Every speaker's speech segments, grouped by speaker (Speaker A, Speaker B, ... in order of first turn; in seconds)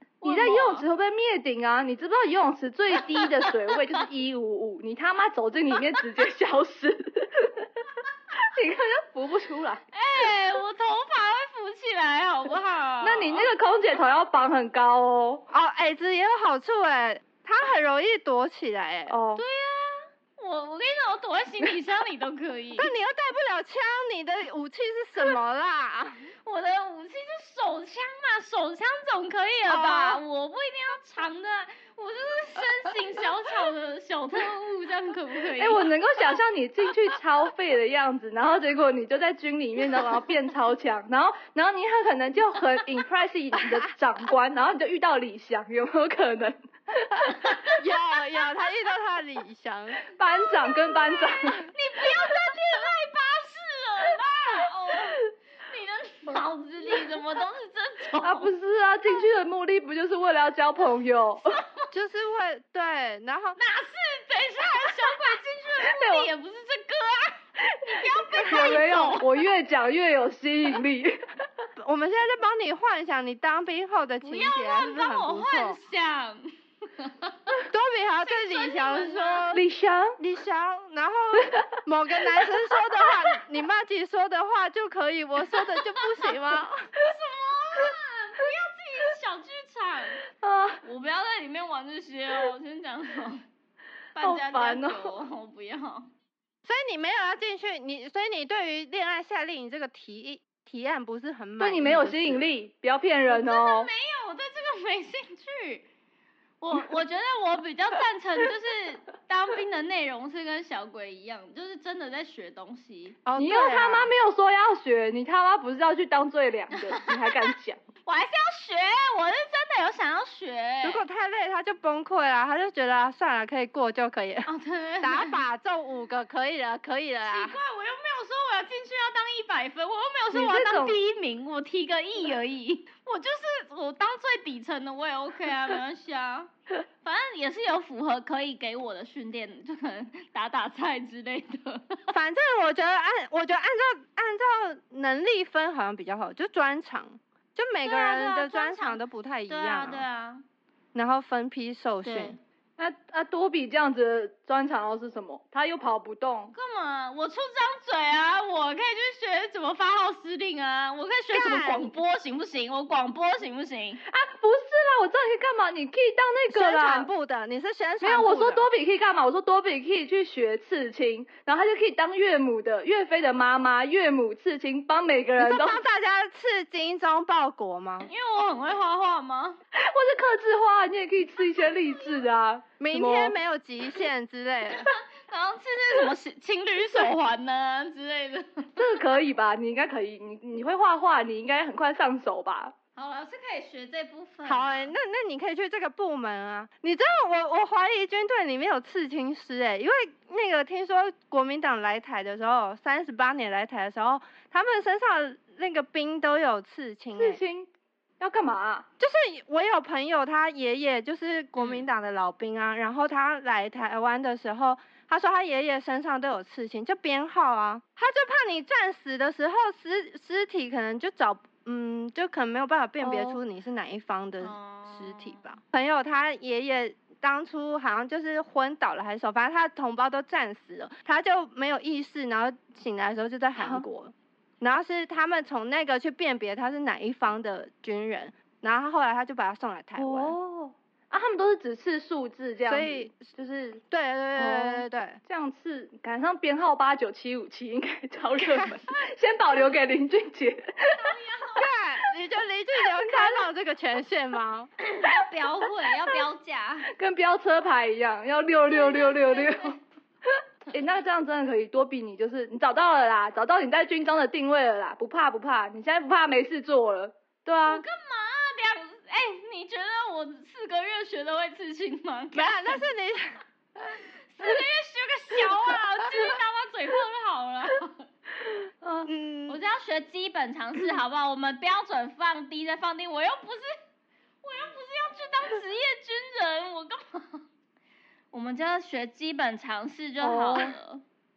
Speaker A: 0.2-0.8, 3.1-3.4, 9.9-13.5, 19.4-22.9, 26.4-35.9, 47.3-47.8, 50.8-58.5, 61.5-61.9, 63.6-69.3, 74.2-77.7, 78.2-79.5, 86.0-86.3, 87.0-90.2, 90.8-93.4, 94.2-96.1, 103.3-105.9, 106.6-113.2, 116.9-117.3, 118.1-121.0, 124.5-125.4, 127.2-136.5, 137.0-142.0, 147.8-150.4, 152.0-152.4, 156.5-164.0, 178.0-179.6, 181.8-182.2, 184.7-188.8, 193.0-194.9, 211.6-211.8, 224.4-225.6, 251.0-251.7, 254.8-256.9, 258.7-259.8, 267.6-272.8, 273.9-278.1, 279.5-283.7, 284.4-287.4, 288.3-291.0
Speaker B: 0.2-7.9, 8.4-9.8, 13.0-15.4, 19.1-19.4, 35.6-47.6, 50.1-51.7, 58.2-61.6, 65.8-66.3, 67.6-71.5, 79.5-80.2, 81.4-81.6, 90.4-90.8, 94.2-95.2, 101.6-103.9, 113.4-117.8, 130.3-131.0, 152.8-156.5, 164.1-167.1, 168.0-175.8, 179.8-183.4, 188.8-192.8, 207.1-207.7, 208.2-208.9, 223.0-223.4, 233.6-233.8, 240.0-243.8, 244.4-251.2, 253.0-253.5, 256.9-267.9, 278.8-279.1, 290.2-290.7
Speaker C: 15.5-19.2, 22.8-26.3, 29.7-30.2, 43.6-43.9, 47.8-50.0, 61.9-63.6, 68.5-68.8, 71.8-75.8, 77.7-79.6, 80.2-86.9, 96.6-102.5, 113.2-114.1, 120.8-124.5, 125.0-127.6, 142.1-150.1, 150.9-152.4, 161.3-161.9, 166.5-168.7, 175.4-178.1, 182.8-184.9, 194.4-207.4, 209.0-240.3, 242.6-243.3, 243.9-245.2, 248.4-248.8, 251.6-254.7, 272.3-273.4, 279.1-279.6